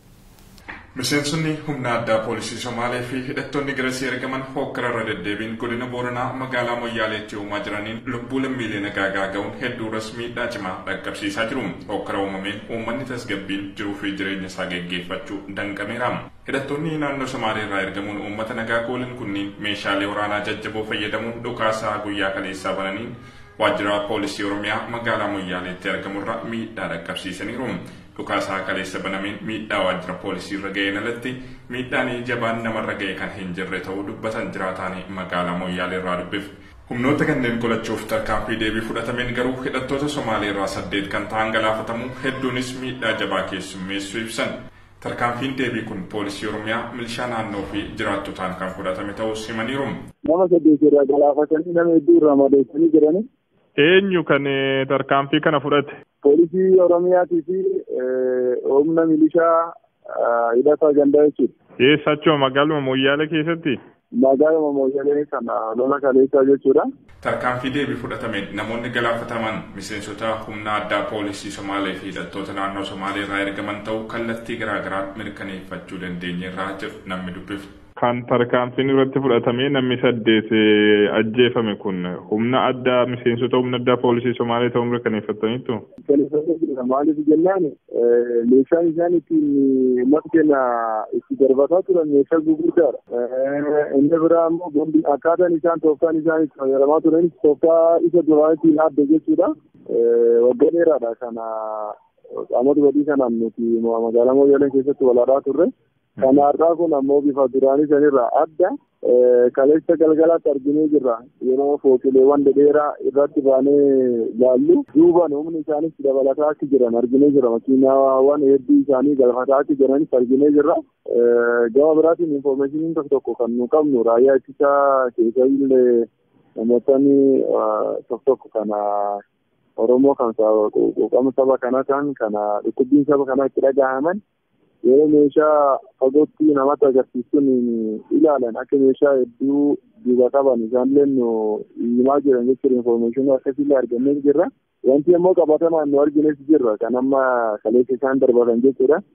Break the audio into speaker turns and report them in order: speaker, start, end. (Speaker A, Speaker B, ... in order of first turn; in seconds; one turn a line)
Speaker A: 0.9-50.0
Speaker B: 50.2-53.3
Speaker C: 53.8-56.0
Speaker B: 56.2-61.5
Speaker C: 61.8-63.8
Speaker B: 64.2-66.9
Speaker A: 67.2-77.7
Speaker C: 78.0-85.8
Speaker B: 86.0-102.0
Speaker B: 102.5-129.2
Speaker B: 129.8-134.2
Speaker B: 134.8-149.0